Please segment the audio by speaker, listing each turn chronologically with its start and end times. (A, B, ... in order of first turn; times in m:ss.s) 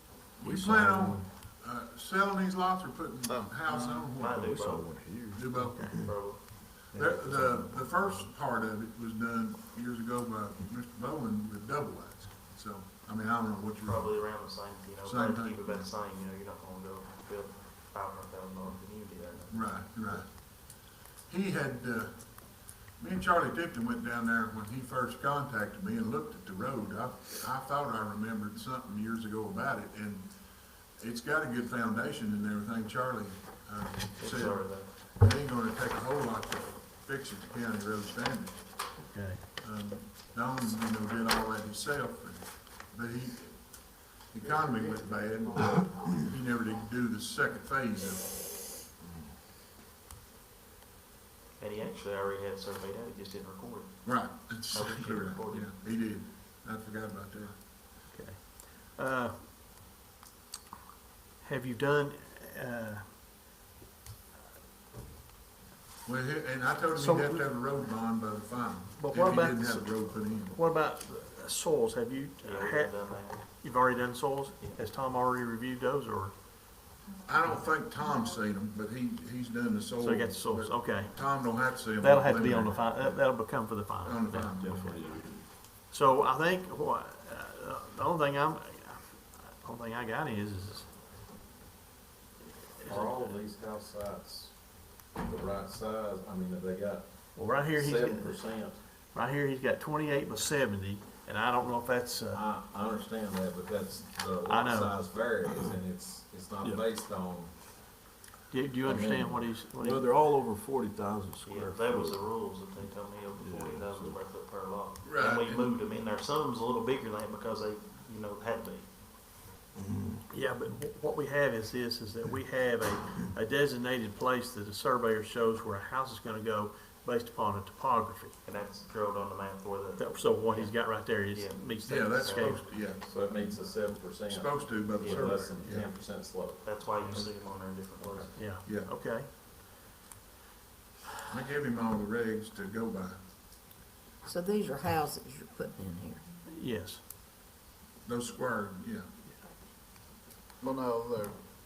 0:00.4-0:04.6 A
0:00.4-0:01.3 B
0:04.2-0:05.0 C
0:04.3-0:06.2 B
0:05.3-0:06.1 A
0:06.0-0:06.4 C
0:06.9-0:14.3 A
0:06.9-0:08.1 B
0:13.8-0:20.2 C
0:15.0-0:15.7 A
0:19.5-0:30.3 A
0:30.9-0:38.9 A
0:34.2-0:34.9 C
0:39.1-0:39.4 D
0:39.6-0:48.6 A
0:51.6-0:53.9 C
0:54.0-0:57.5 A
0:54.7-0:55.7 C
0:58.1-0:59.5 D
1:01.4-1:03.1 D
1:06.0-1:10.6 A
1:06.9-1:07.5 D
1:09.0-1:16.4 D
1:12.4-1:13.4 C
1:17.2-1:23.2 A
1:20.0-1:21.1 D
1:22.0-1:24.5 D
1:24.0-1:25.2 A
1:24.6-1:25.5 B
1:25.9-1:30.9 D
1:32.8-1:33.4 D
1:32.8-1:34.5 E
1:35.2-1:38.8 E
1:37.3-1:38.5 D
1:39.1-1:42.4 D
1:42.3-1:47.5 E
1:44.5-1:45.0 D
1:48.5-1:50.1 D
1:48.8-1:49.6 E
1:49.7-1:52.2 B
1:51.5-1:58.9 C
1:53.4-1:54.2 B
1:55.0-1:55.8 A
1:59.8-2:00.2 B
2:00.3-2:08.4 D
2:08.4-2:12.6 C
2:10.0-2:12.8 D
2:11.8-2:13.6 A
2:13.0-2:16.6 E
2:14.3-2:15.9 A
2:15.0-2:15.4 C
2:16.6-2:18.4 C
2:18.0-2:18.3 E
2:18.4-2:19.3 D
2:18.6-2:18.9 A
2:21.3-2:23.2 A
2:24.2-2:26.2 F
2:26.5-2:27.0 D
2:28.0-2:29.1 A